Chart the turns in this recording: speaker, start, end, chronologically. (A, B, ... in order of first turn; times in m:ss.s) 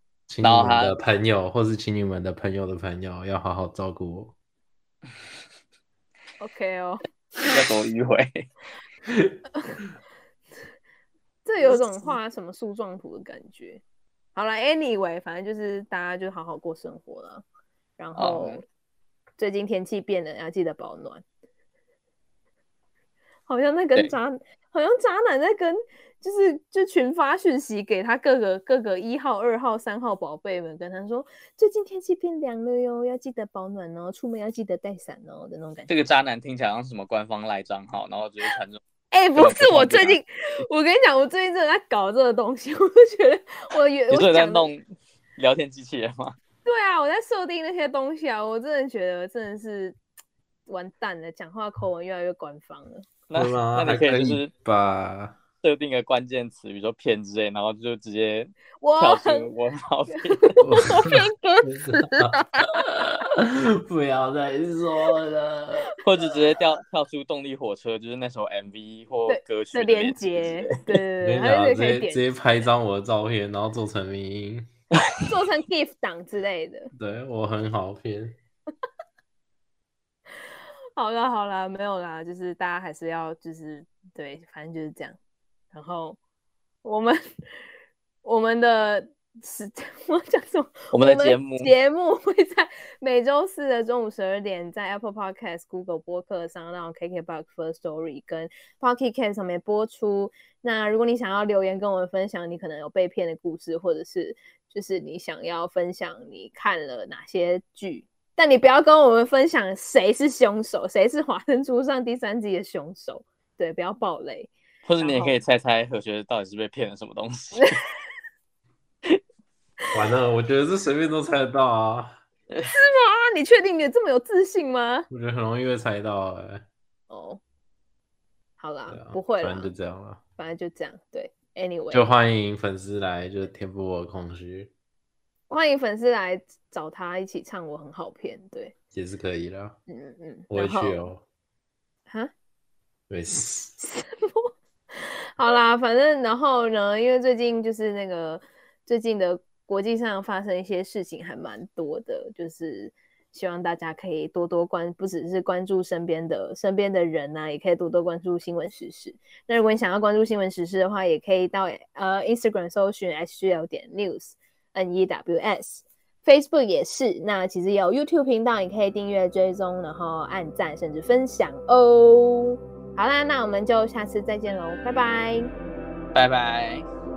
0:00.3-0:04.3 A
0:00.4-0:01.0 B
0:06.4-0:07.6 C
0:07.5-0:08.5 B
0:09.1-0:09.3 A
0:11.4-0:13.8 C
0:14.3-0:17.4 C
0:18.0-0:18.6 C
0:18.2-0:18.6 B
0:19.4-0:21.2 C
0:23.5-0:35.9 C
0:35.9-0:38.8 B
0:39.1-0:44.7 C
0:39.4-0:40.2 B
0:44.1-0:44.9 B
0:45.4-0:46.4 B
0:46.6-0:50.0 C
0:50.7-0:53.1 C
0:53.3-0:54.5 B
0:53.3-0:55.4 A
0:55.6-1:00.6 B
0:58.8-0:59.5 C
1:00.4-1:02.7 C
1:00.6-1:05.9 A
1:06.0-1:10.8 B
1:09.3-1:12.2 C
1:11.2-1:14.7 A
1:15.3-1:16.9 C
1:16.9-1:18.3 A
1:21.0-1:25.2 C
1:25.7-1:26.2 C
1:26.8-1:27.2 C
1:28.2-1:55.4 C
1:30.9-1:31.7 B
1:54.9-1:57.8 B
1:59.9-2:02.2 A
2:02.7-2:05.1 C
2:05.1-2:06.6 A
2:07.1-2:07.4 C
2:08.6-2:09.7 C
2:08.9-2:10.2 A
2:10.4-2:12.1 C
2:11.9-2:14.7 A
2:15.5-2:18.7 C
2:18.9-2:19.8 A
2:19.9-2:21.0 C
2:20.5-2:21.2 A
2:23.1-2:23.7 A
2:23.8-2:55.5 C
2:56.1-2:56.9 B